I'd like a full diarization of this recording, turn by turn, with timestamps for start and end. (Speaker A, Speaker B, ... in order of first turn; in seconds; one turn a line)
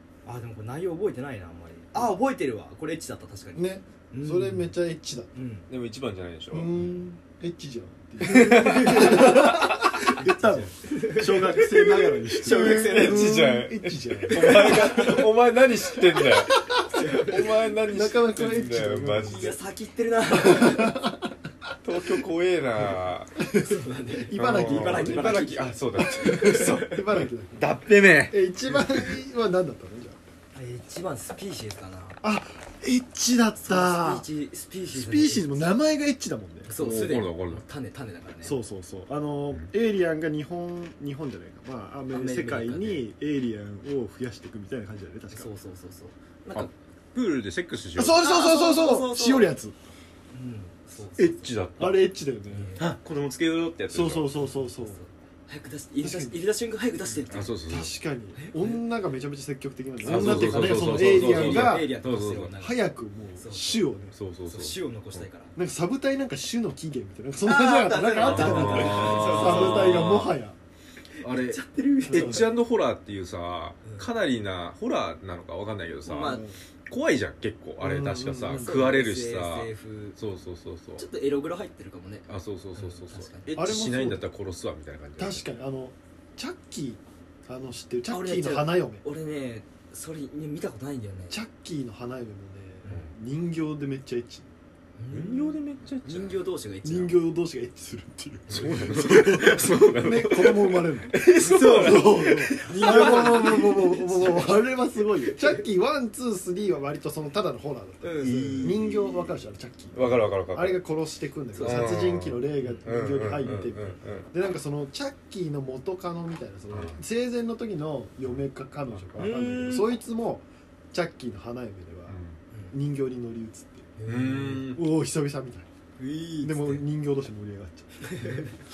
Speaker A: 0.2-4.7
Speaker B: 3.5-5.3
Speaker A: 5.3-5.7
Speaker C: 5.7-6.7
Speaker B: 6.5-15.2
Speaker A: 8.2-13.4
Speaker C: 8.3-9.9
Speaker C: 12.4-16.6
Speaker A: 14.3-15.3
Speaker B: 16.5-16.9
Speaker A: 16.8-17.6
Speaker C: 17.3-19.6
Speaker B: 17.8-19.6
Speaker A: 19.3-21.1
Speaker B: 20.3-21.3
Speaker C: 21.8-23.3
Speaker B: 22.8-27.8
Speaker A: 23.6-27.0
Speaker C: 24.4-29.1
Speaker B: 28.3-30.2
Speaker A: 30.5-32.2
Speaker B: 32.2-34.2
Speaker A: 33.6-35.5
Speaker B: 34.9-36.8
Speaker A: 36.7-38.6
Speaker C: 36.8-37.6
Speaker B: 38.4-45.5
Speaker A: 42.1-43.1
Speaker A: 45.3-46.7
Speaker C: 46.5-48.2
Speaker B: 48.0-49.8
Speaker A: 48.2-49.6
Speaker A: 50.3-51.5
Speaker C: 51.2-52.1
Speaker B: 51.8-52.7
Speaker A: 52.5-53.0
Speaker C: 52.8-54.3
Speaker B: 53.9-55.0
Speaker A: 54.4-57.6
Speaker B: 56.0-56.4
Speaker B: 57.2-64.2
Speaker C: 57.3-57.9
Speaker A: 58.3-58.8
Speaker C: 60.0-62.5
Speaker A: 60.0-63.9
Speaker C: 64.1-65.3
Speaker A: 64.5-65.5
Speaker B: 65.6-70.6
Speaker A: 67.4-70.2
Speaker C: 68.2-70.3
Speaker A: 71.2-72.5
Speaker C: 71.2-81.1
Speaker B: 72.1-72.5
Speaker A: 73.8-74.1
Speaker A: 76.1-76.5
Speaker B: 76.2-76.6
Speaker B: 77.8-78.8
Speaker A: 78.5-80.2
Speaker A: 81.0-83.8
Speaker C: 82.3-85.5
Speaker B: 83.5-84.3
Speaker B: 85.2-89.0
Speaker A: 88.1-91.4
Speaker B: 91.3-94.5
Speaker A: 92.8-93.1
Speaker A: 95.0-97.2
Speaker C: 95.1-96.4
Speaker B: 96.8-122.2
Speaker C: 98.5-103.6
Speaker A: 101.4-104.7
Speaker A: 105.2-105.6
Speaker A: 108.0-109.0
Speaker C: 108.2-109.1
Speaker C: 109.9-110.8
Speaker A: 111.5-112.0
Speaker C: 111.6-114.3
Speaker C: 116.7-117.0
Speaker C: 118.9-119.3
Speaker A: 119.2-120.0
Speaker C: 122.1-122.4
Speaker B: 122.7-123.9
Speaker A: 124.0-124.7
Speaker C: 124.1-124.8
Speaker B: 124.7-125.7
Speaker A: 126.0-126.8
Speaker B: 126.4-128.5
Speaker A: 128.0-128.6